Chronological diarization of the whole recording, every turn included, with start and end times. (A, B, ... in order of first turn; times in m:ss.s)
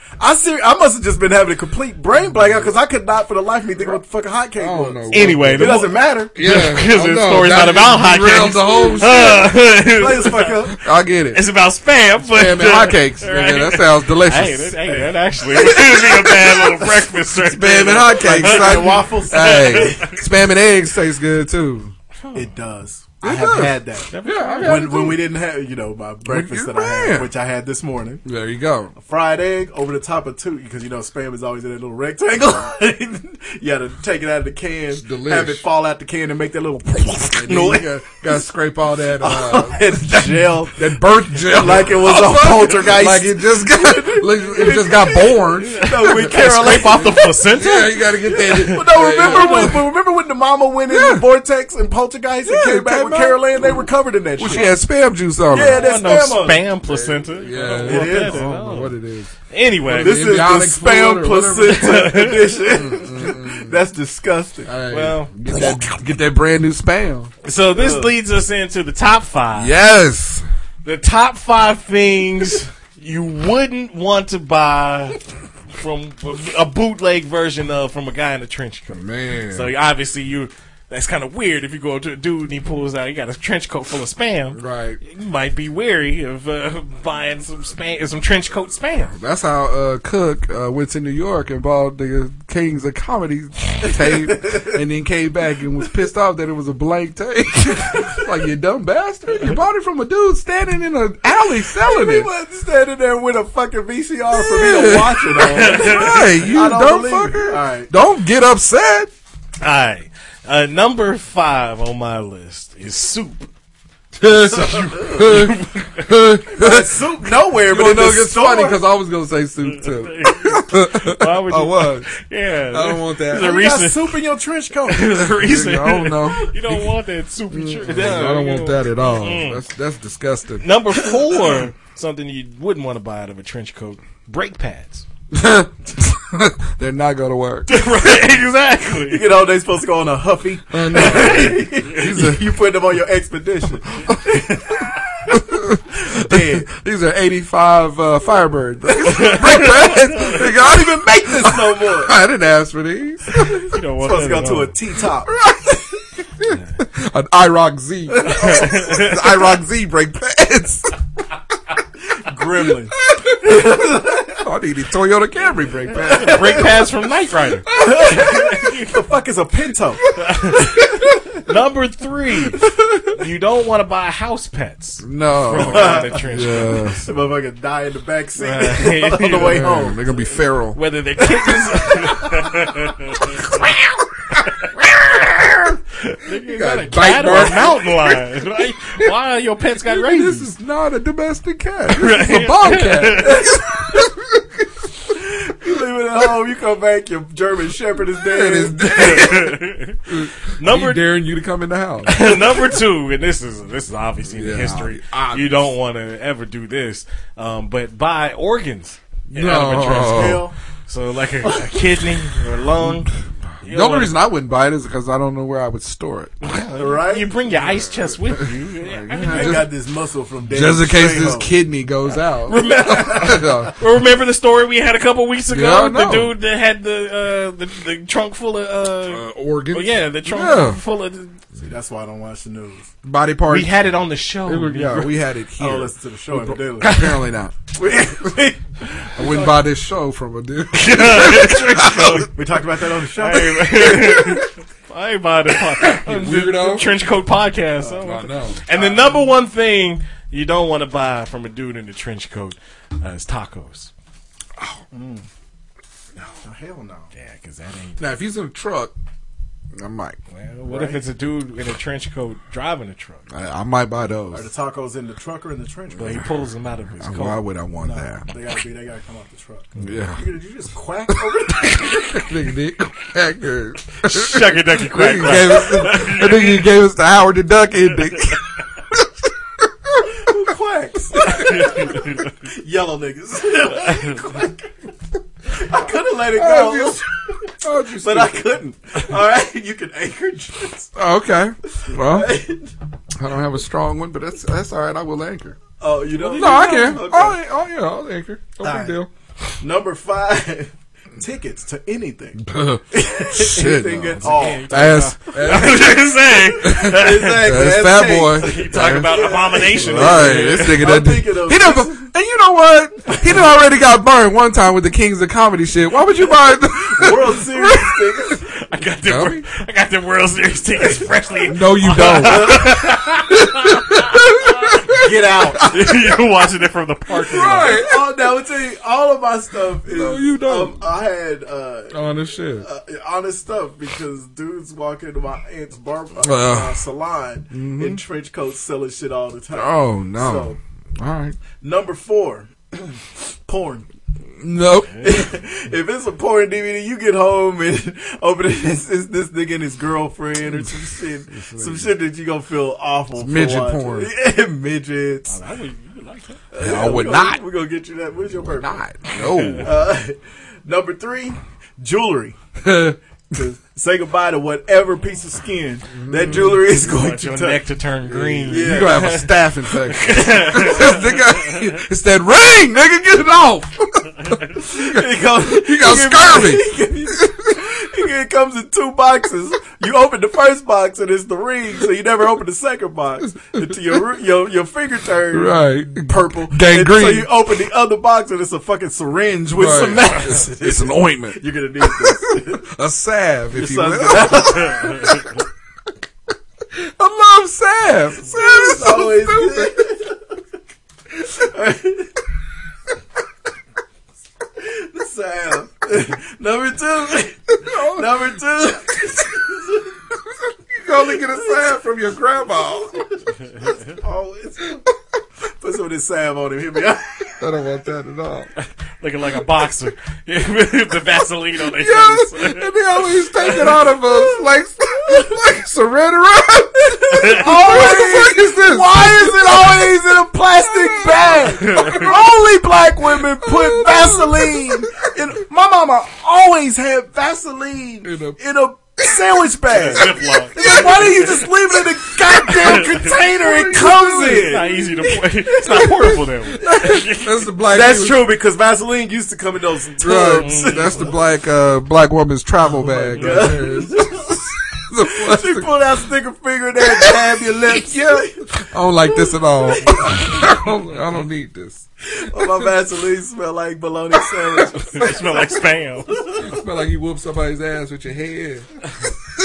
0:00.2-0:06.3 A
0:04.6-0:09.6 B
0:05.1-0:10.6 C
0:09.9-0:10.8 A
0:10.7-0:11.4 B
0:11.3-0:20.2 C
0:12.2-0:14.8 B
0:14.9-0:15.2 A
0:15.7-0:16.1 B
0:17.4-0:21.9 B
0:18.1-0:20.2 A
0:22.2-0:22.5 C
0:22.3-0:28.2 A
0:23.2-0:25.3 B
0:24.1-0:24.9 C
0:26.3-0:27.3 B
0:28.2-0:28.9 B
0:29.0-0:38.4 A
0:35.0-0:35.6 B
0:37.3-0:49.9 B
0:39.2-0:47.4 A
0:45.6-0:49.8 C
0:48.2-0:54.7 A
0:50.9-0:51.3 B
0:52.4-0:55.9 B
0:55.5-0:56.7 A
0:55.7-0:59.0 C
0:56.8-0:59.3 B
0:57.8-0:58.4 A
0:59.5-1:00.3 C
0:59.8-1:02.0 B
1:00.0-1:04.7 A
1:01.7-1:02.6 C
1:02.7-1:03.8 B
1:04.7-1:07.3 B
1:04.9-1:05.3 C
1:07.4-1:09.8 C
1:07.8-1:08.1 A
1:09.6-1:10.4 B
1:10.8-1:29.1 C
1:18.9-1:19.7 B
1:24.5-1:25.0 B
1:29.1-1:42.3 B
1:34.2-1:34.7 A
1:41.8-1:47.9 A
1:44.3-1:49.1 B
1:45.5-1:46.4 C
1:49.6-1:53.5 C
1:54.2-2:02.1 B
1:54.4-1:56.1 C
1:54.6-1:55.3 A
1:56.5-1:58.8 A
1:59.8-2:04.1 C
2:02.7-2:03.6 B
2:03.3-2:05.2 A
2:04.9-2:09.6 C
2:05.2-2:07.0 B
2:07.5-2:10.7 B
2:07.9-2:08.4 A
2:10.6-2:15.1 C
2:15.3-2:17.8 B
2:17.7-2:19.2 C
2:19.1-2:25.4 A
2:20.7-2:22.6 B
2:20.9-2:21.7 C
2:25.3-2:33.4 B
2:26.0-2:26.7 A
2:29.1-2:30.0 C
2:30.2-2:32.1 A
2:33.6-2:34.7 C
2:34.0-2:35.4 A
2:35.4-2:35.8 B
2:36.4-2:41.0 B
2:38.2-2:38.5 A
2:38.3-2:39.2 C
2:42.1-2:44.4 A
2:43.1-2:46.7 B
2:46.0-2:46.7 A
2:46.2-2:48.9 C
2:47.7-2:48.2 B
2:47.7-2:51.3 A
2:50.1-2:50.8 C
2:51.4-2:57.1 C
2:55.0-2:57.0 B
2:55.6-2:56.2 A
2:57.0-3:00.0 A
2:58.4-2:59.7 C
2:59.4-3:00.8 B
3:00.8-3:10.5 C
3:01.4-3:02.6 A
3:06.3-3:09.1 B
3:09.8-3:14.4 B
3:11.9-3:13.5 C
3:13.3-3:13.9 A
3:15.1-3:19.3 A
3:18.2-3:22.2 B
3:18.8-3:20.0 C
3:20.6-3:21.0 C
3:22.0-3:33.1 C
3:24.3-3:25.7 B
3:29.3-3:30.5 B
3:29.8-3:30.6 A
3:32.8-3:33.1 B
3:33.6-3:34.2 C
3:33.6-3:36.3 B
3:36.4-3:39.7 C
3:36.8-3:37.4 A
3:37.5-3:39.7 B
3:39.3-3:41.5 A
3:40.5-3:43.8 B
3:42.4-3:51.4 C
3:45.5-3:46.3 B
3:49.1-3:50.8 B
3:51.6-3:52.9 A
3:53.0-3:53.7 B
3:53.5-3:55.1 C
3:54.5-3:58.4 B
3:55.6-3:57.0 A
3:57.8-3:58.6 A
3:59.2-4:02.3 B
4:00.8-4:02.3 C
4:02.3-4:04.4 A
4:03.2-4:13.9 C
4:05.9-4:07.0 B
4:07.8-4:08.1 A
4:08.0-4:08.6 B
4:08.7-4:09.3 A
4:14.9-4:15.3 A
4:16.4-4:17.1 A
4:17.2-4:18.1 C
4:18.0-4:18.9 B
4:19.8-4:20.2 B
4:20.3-4:23.3 C
4:20.7-4:21.0 A
4:23.3-4:24.5 B
4:24.3-4:26.2 A
4:26.0-4:27.4 C
4:27.0-4:28.3 B
4:27.8-4:32.1 A
4:29.8-4:30.2 B
4:31.1-4:39.1 B
4:34.0-4:36.7 C
4:39.6-4:40.1 B
4:40.1-4:44.7 A
4:41.3-4:42.3 C
4:43.9-4:44.2 C
4:45.5-4:50.9 A
4:46.3-4:47.0 B
4:47.6-4:48.5 B
4:51.0-4:52.4 B
4:51.8-4:52.7 A
4:53.2-4:55.6 B
4:55.8-4:57.4 A
4:56.2-4:57.1 C
4:56.3-4:59.1 B
4:58.6-4:59.0 A
4:59.6-5:04.7 A
5:02.4-5:18.4 B
5:04.2-5:07.4 C
5:06.7-5:12.1 A
5:08.4-5:10.8 C
5:13.1-5:13.4 A
5:16.8-5:18.4 A
5:18.4-5:24.8 C
5:19.1-5:19.4 B
5:21.5-5:22.8 B
5:22.0-5:22.9 A
5:23.4-5:26.2 B
5:25.0-5:25.7 A
5:25.6-5:27.8 C
5:27.2-5:28.1 B
5:27.4-5:32.0 A
5:29.9-5:30.8 B
5:31.9-5:32.7 B
5:32.6-5:40.6 A
5:36.2-5:36.8 B
5:37.5-5:38.0 B
5:39.5-5:41.4 B
5:41.6-5:43.9 A
5:44.4-5:45.2 B
5:45.0-5:55.4 A
5:50.5-5:51.9 B
5:53.2-5:54.1 B
5:55.3-5:56.4 C
5:56.5-5:58.8 A
5:56.6-5:57.4 B
5:58.4-5:59.8 B
5:59.2-5:59.7 C
5:59.6-6:02.4 A
6:02.6-6:03.0 B
6:03.3-6:07.6 A
6:05.9-6:06.6 B
6:06.7-6:11.7 C
6:08.1-6:17.6 B
6:08.5-6:09.1 A
6:14.7-6:32.7 A
6:25.3-6:27.3 B
6:29.5-6:35.1 B
6:33.6-6:35.2 A
6:36.7-6:39.8 B
6:38.3-6:40.2 A
6:41.2-6:42.1 A
6:44.6-6:50.0 A
6:47.6-6:48.3 B
6:50.5-6:53.1 B
6:53.9-6:54.8 A
6:55.6-6:57.4 A
6:57.4-6:58.5 B
6:58.6-7:02.7 C
7:01.6-7:12.4 B
7:07.0-7:24.7 A
7:07.1-7:07.5 C
7:11.7-7:12.1 C
7:13.0-7:15.0 B
7:18.0-7:18.4 B
7:19.7-7:21.0 C
7:20.5-7:28.3 B
7:24.2-7:27.4 C
7:27.7-7:31.1 A
7:30.0-7:35.8 B
7:30.3-7:31.0 C
7:32.8-7:34.4 A
7:33.2-7:33.6 C
7:35.0-7:38.5 A
7:36.8-7:42.7 B
7:42.1-7:44.9 A
7:44.4-7:45.4 B
7:44.8-7:46.3 C
7:46.4-7:48.7 B